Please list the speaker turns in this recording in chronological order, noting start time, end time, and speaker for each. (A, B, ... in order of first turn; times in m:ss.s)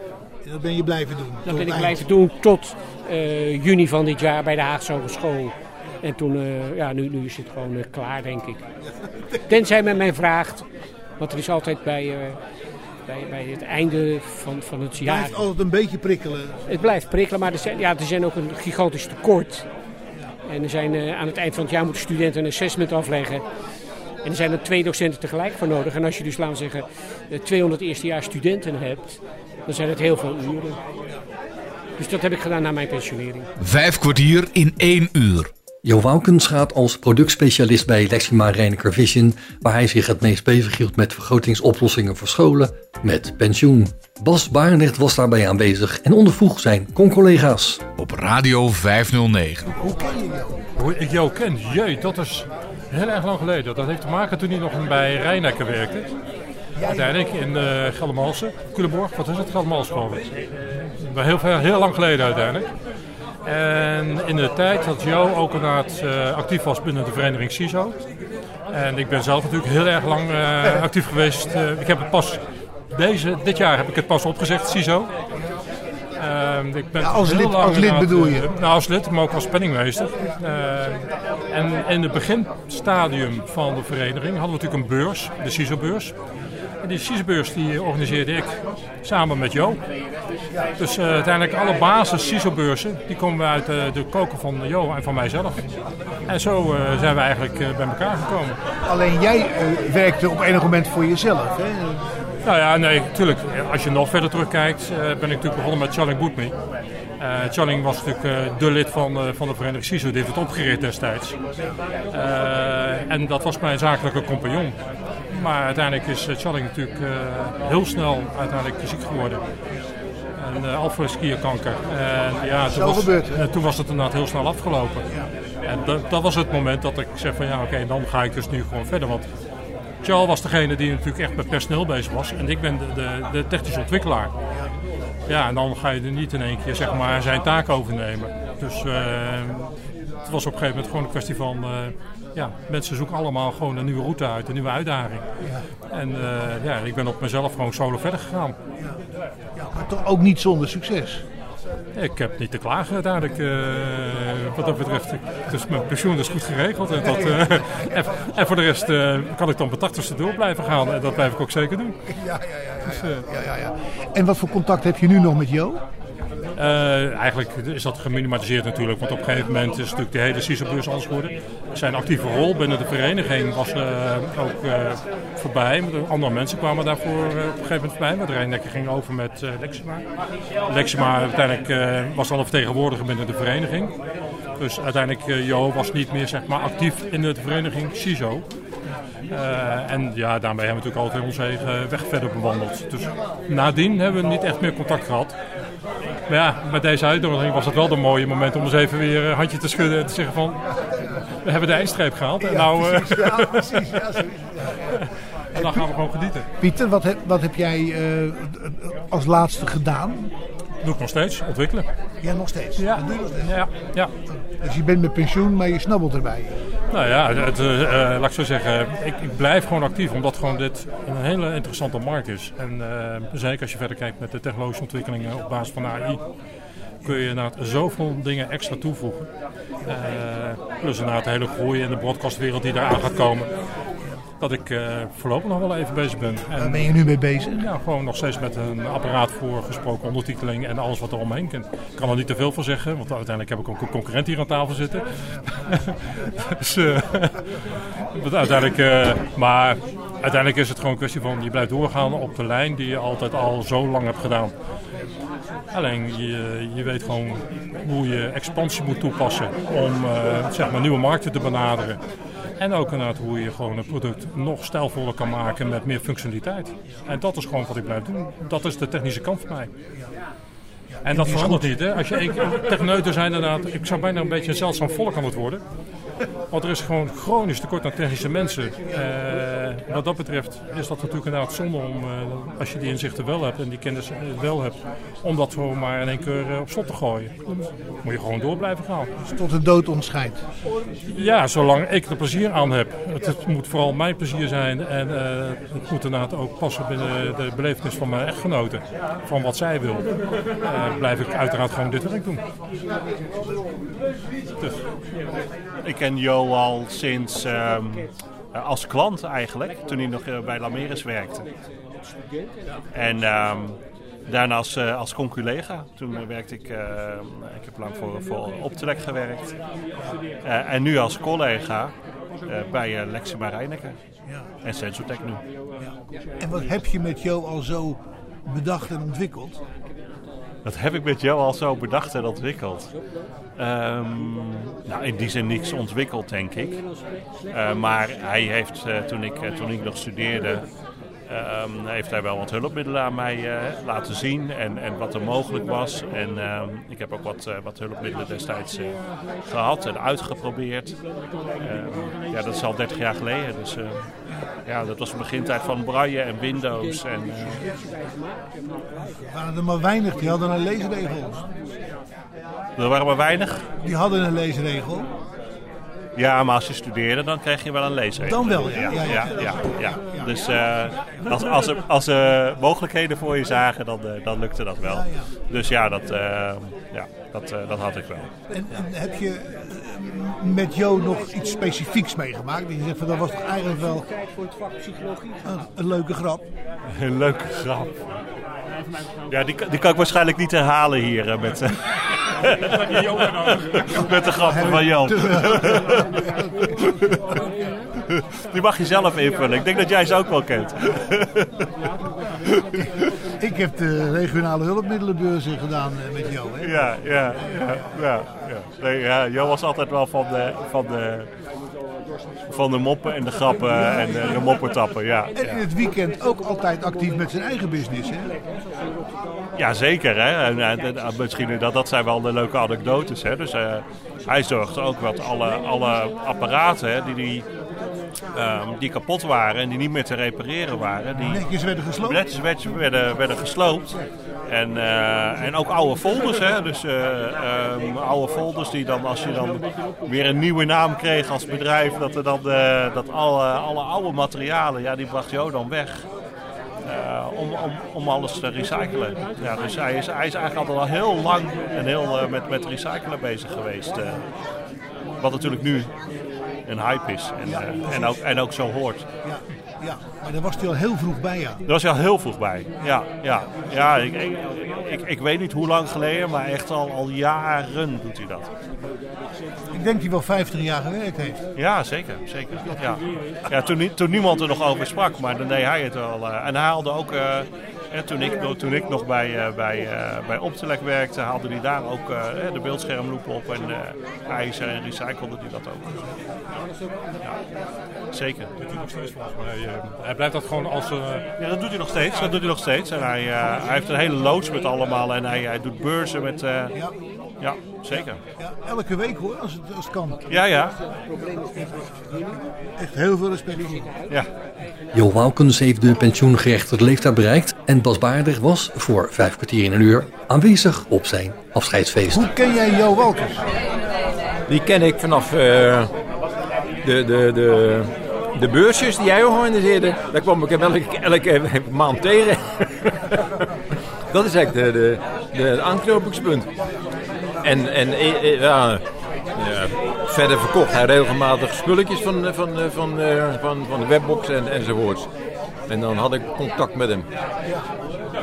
0:00.4-0:02.0 A
0:01.5-0:08.6 B
0:09.5-0:10.7 B
0:11.2-0:12.4 B
0:13.1-0:15.4 B
0:15.0-0:16.6 A
0:16.7-0:19.7 B
0:20.4-0:23.4 B
0:24.2-0:30.8 B
0:32.0-0:33.5 B
0:33.6-0:35.5 C
0:35.8-0:47.8 D
0:48.0-0:49.7 C
0:49.7-0:50.6 A
0:50.8-0:56.1 E
0:56.8-0:57.2 A
0:56.8-1:00.3 E
1:01.0-1:02.7 E
1:03.4-1:08.0 E
1:08.7-1:12.4 E
1:12.9-1:15.1 E
1:16.2-1:26.1 E
1:17.0-1:18.5 A
1:26.8-1:29.8 E
1:30.8-1:35.6 E
1:36.3-1:38.6 E
1:38.9-1:42.2 A
1:42.4-1:46.5 E
1:47.2-1:51.4 E
1:52.1-1:54.8 E
1:55.3-1:59.4 E
2:00.4-2:05.1 E
2:02.6-2:03.4 A
2:05.7-2:09.3 E
2:10.0-2:14.3 E
2:15.3-2:19.7 E
2:20.2-2:25.3 E
2:25.9-2:28.6 E
2:29.6-2:31.2 A
2:32.0-2:42.0 E
2:37.0-2:37.4 A
2:42.1-2:45.8 A
2:43.0-2:43.3 E
2:46.6-3:00.0 E
3:00.7-3:04.0 E
3:04.6-3:08.4 E
3:09.3-3:15.4 E
3:16.3-3:20.6 E
3:21.4-3:24.0 E
3:22.4-3:25.0 A
3:24.9-3:26.5 E
3:25.5-3:25.9 A
3:26.6-3:30.3 A
3:30.8-3:31.9 E
3:32.2-3:33.6 A
3:32.8-3:34.1 E
3:34.5-3:36.6 A
3:36.9-3:46.2 E
3:47.0-3:49.3 E
3:49.9-3:53.5 E
3:54.4-4:07.4 E
3:56.5-3:57.6 A
4:08.1-4:14.5 E
4:15.7-4:22.0 E
4:22.6-4:29.7 E
4:31.0-4:31.7 A
4:31.0-4:35.6 E
4:36.5-4:49.1 E
4:49.2-4:50.4 A
4:51.1-5:00.1 E
5:00.6-5:02.4 E
5:05.8-5:11.5 F
5:12.9-5:19.6 F
5:20.4-5:21.9 F
5:22.4-5:24.0 F
5:24.6-5:25.4 F
5:25.8-5:29.6 A
5:30.6-5:32.9 F
5:33.6-5:36.8 F
5:37.5-5:40.7 F
5:41.3-5:51.0 F
5:51.6-5:54.1 F
5:54.6-5:57.7 F
5:59.0-6:01.5 A
6:02.8-6:03.7 F
6:03.8-6:05.1 A
6:06.2-6:18.3 F
6:08.3-6:10.3 A
6:14.9-6:15.2 A
6:18.5-6:24.1 A
6:25.4-6:26.4 A
6:26.9-6:28.0 F
6:29.3-6:37.2 F
6:34.5-6:35.9 A
6:38.4-6:41.5 F
6:42.5-6:42.8 F
6:43.4-6:46.8 A
6:46.6-6:51.3 F
6:47.4-6:47.8 A
6:52.5-6:55.6 F
6:54.0-6:54.3 A
6:55.4-6:58.3 A
6:59.6-7:07.5 F
7:08.3-7:11.5 F
7:11.2-7:12.2 A
7:12.0-7:13.9 F
7:14.5-7:26.1 F
7:26.8-7:34.2 F
7:35.2-7:35.9 F
7:36.7-7:39.1 F
7:37.5-7:38.2 A
7:39.2-7:41.6 A
7:41.7-7:48.5 F
7:49.7-7:51.4 A
7:51.6-8:06.1 F
8:08.1-8:08.5 F
8:08.6-8:11.3 E
8:11.4-8:16.8 F
8:17.4-8:18.2 F
8:18.4-8:20.2 A
8:20.3-8:20.8 F
8:21.6-8:24.0 A
8:24.9-8:32.3 D
8:32.1-8:33.4 A
8:34.5-8:35.9 G
8:36.8-8:43.1 G
8:44.1-8:46.5 G
8:47.4-8:48.8 G
8:49.4-8:55.1 G
8:55.7-8:57.1 G